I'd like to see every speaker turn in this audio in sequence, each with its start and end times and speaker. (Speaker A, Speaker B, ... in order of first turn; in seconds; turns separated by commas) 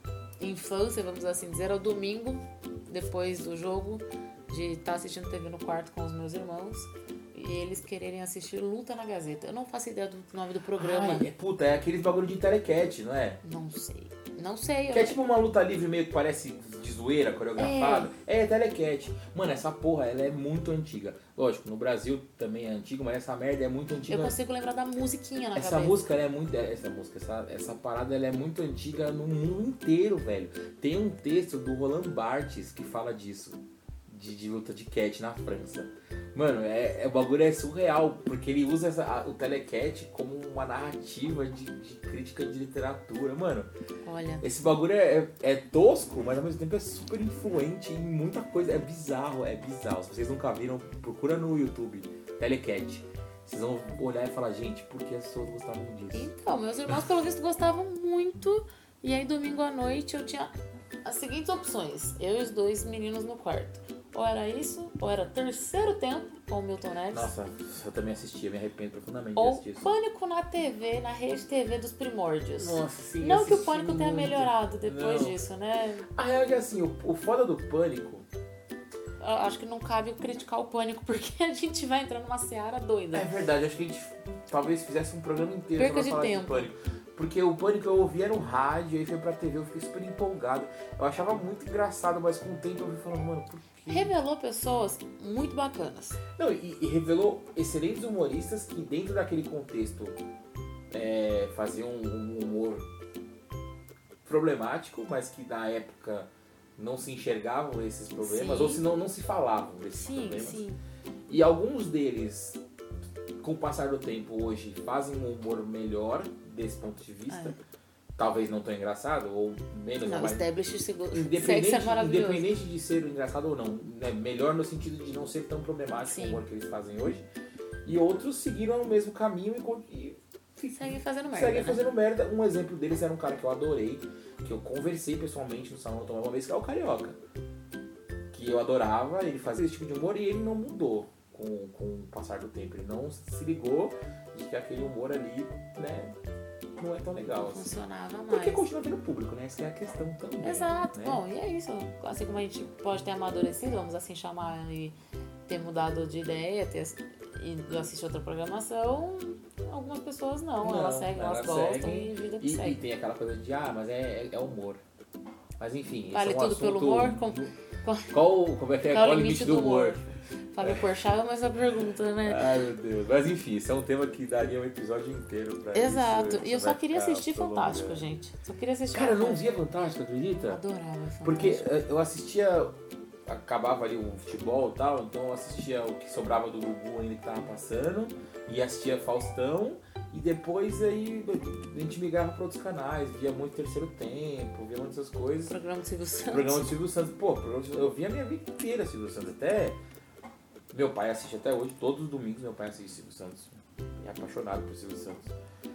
Speaker A: 0.4-11.3, Speaker B: 10.8-13.4, Speaker A: 13.4-15.2, Speaker B: 14.9-24.4, Speaker A: 17.6-18.1, Speaker A: 24.1-26.1, Speaker B: 25.6-43.7, Speaker A: 44.0-44.5, Speaker B: 44.4-56.3, Speaker A: 56.1-60.5, Speaker A: 61.0-67.3, Speaker B: 67.1-69.9, Speaker A: 69.3-76.1, Speaker B: 72.6-75.4, Speaker B: 76.1-78.2, Speaker A: 79.2-83.3, Speaker B: 83.1-94.1, Speaker A: 85.8-86.7, Speaker A: 93.9-96.2, Speaker B: 96.3-100.2, Speaker B: 100.9-102.8, Speaker B: 104.2-110.6, Speaker A: 108.2-108.8, Speaker A: 109.9-110.8, Speaker B: 111.3-112.6, Speaker B: 113.4-117.6, Speaker A: 117.3-117.5, Speaker B: 118.2-120.5, Speaker A: 120.0-122.5, Speaker B: 121.1-127.2, Speaker A: 126.0-126.4, Speaker B: 127.8-137.2, Speaker A: 130.6-131.8, Speaker B: 138.3-146.1, Speaker B: 146.8-147.8, Speaker A: 147.3-148.6, Speaker B: 148.3-151.2, Speaker A: 150.4-154.9, Speaker A: 155.5-162.8, Speaker B: 160.6-164.8, Speaker B: 165.6-167.5, Speaker A: 166.1-168.1, Speaker B: 168.1-170.1, Speaker A: 168.9-170.0, Speaker A: 170.5-172.6, Speaker B: 170.6-170.9, Speaker B: 172.2-178.1, Speaker A: 175.7-179.6, Speaker B: 178.9-180.6, Speaker A: 180.5-181.7, Speaker B: 181.2-182.7, Speaker B: 183.2-195.6, Speaker A: 195.5-196.7, Speaker B: 196.3-199.8, Speaker B: 200.7-205.3